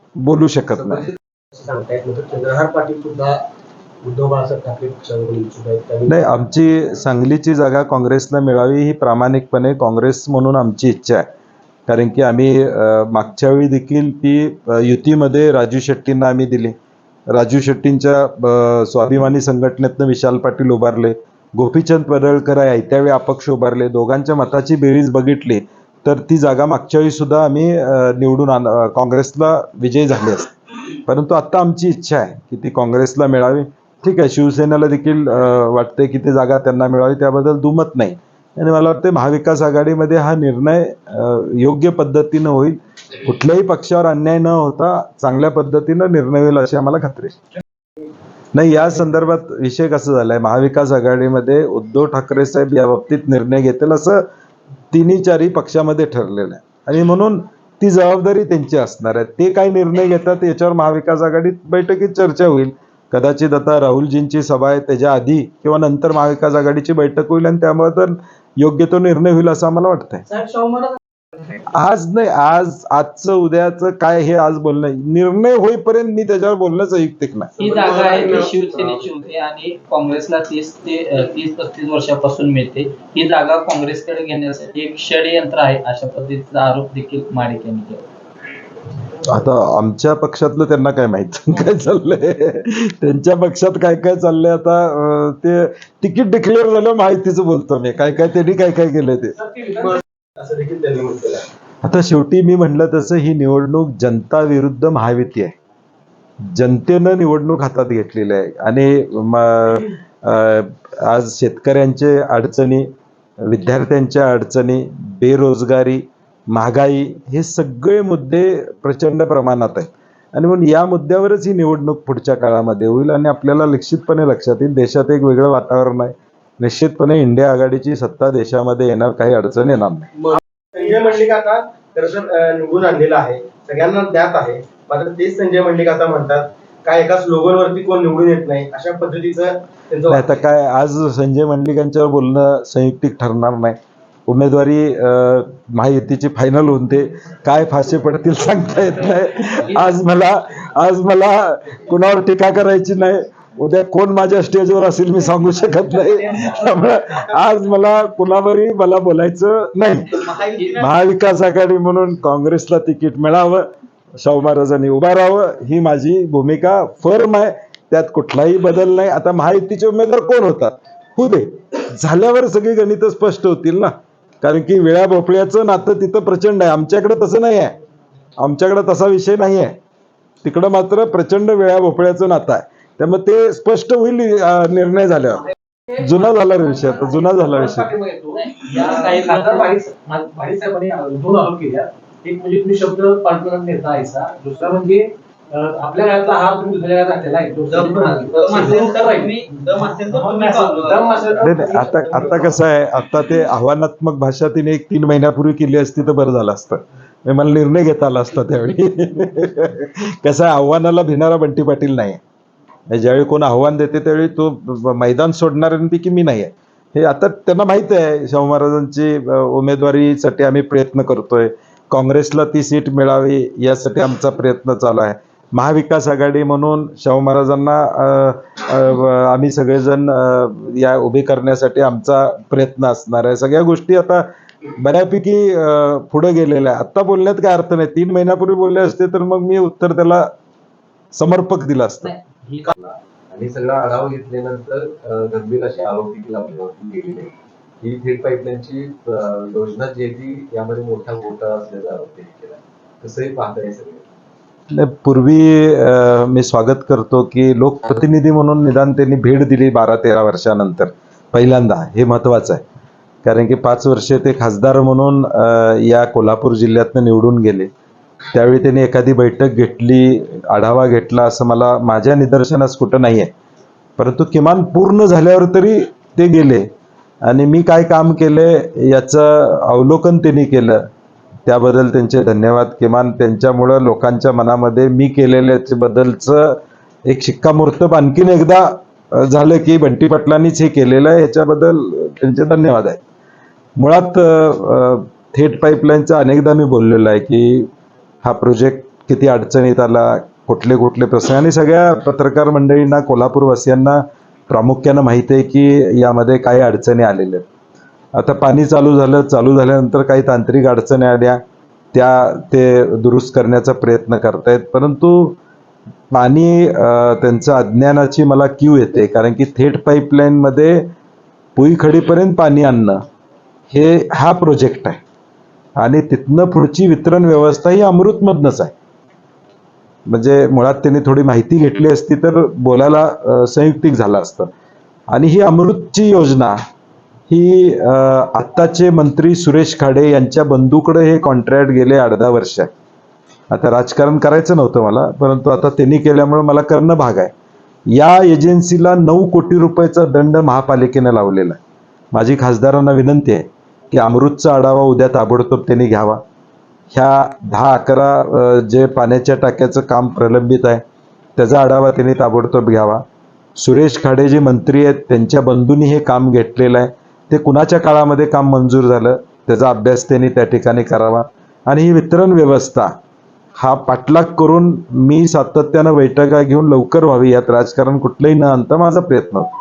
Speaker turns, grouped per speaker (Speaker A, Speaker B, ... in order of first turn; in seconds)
Speaker A: 0.2-1.1, 6.1-11.3, 11.9-16.8, 17.3-47.4, 48.5-54.2, 54.9-70.2, 71.7-77.5, 89.2-99.4, 101.8-105.5, 106.5-112.9, 113.4-130.1, 140.1-163.7, 164.2-177.8, 178.4-179.8, 180.4-187.9, 201.4-212.2, 212.9-240.3, 241.1-242.2, 254.7-262.6, 263.2-267.7, 268.3-273.3, 274.0-276.7, 277.3-280.8, 281.5-293.0, 293.8-297.7, 298.2-307.4, 308.2-311.4, 311.9-315.4, 316.1-320.9, 321.6-323.0, 323.7-325.0, 325.8-328.7, 330.1-334.5, 335.1-336.6, 337.3-342.7, 343.5-347.3, 347.9-351.6, 352.1-356.2, 356.9-360.8, 361.4-363.0, 363.6-372.9, 373.6-379.5
Speaker B: 0.8-3.4, 4.0-6.2, 77.6-78.8, 99.8-101.5, 130.8-140.4
Speaker C: 77.6-88.0, 160.3-160.8, 188.4-189.8, 197.7-201.6
Speaker D: 99.3-100.0, 186.0-202.4
Speaker E: 242.7-247.3, 247.8-254.1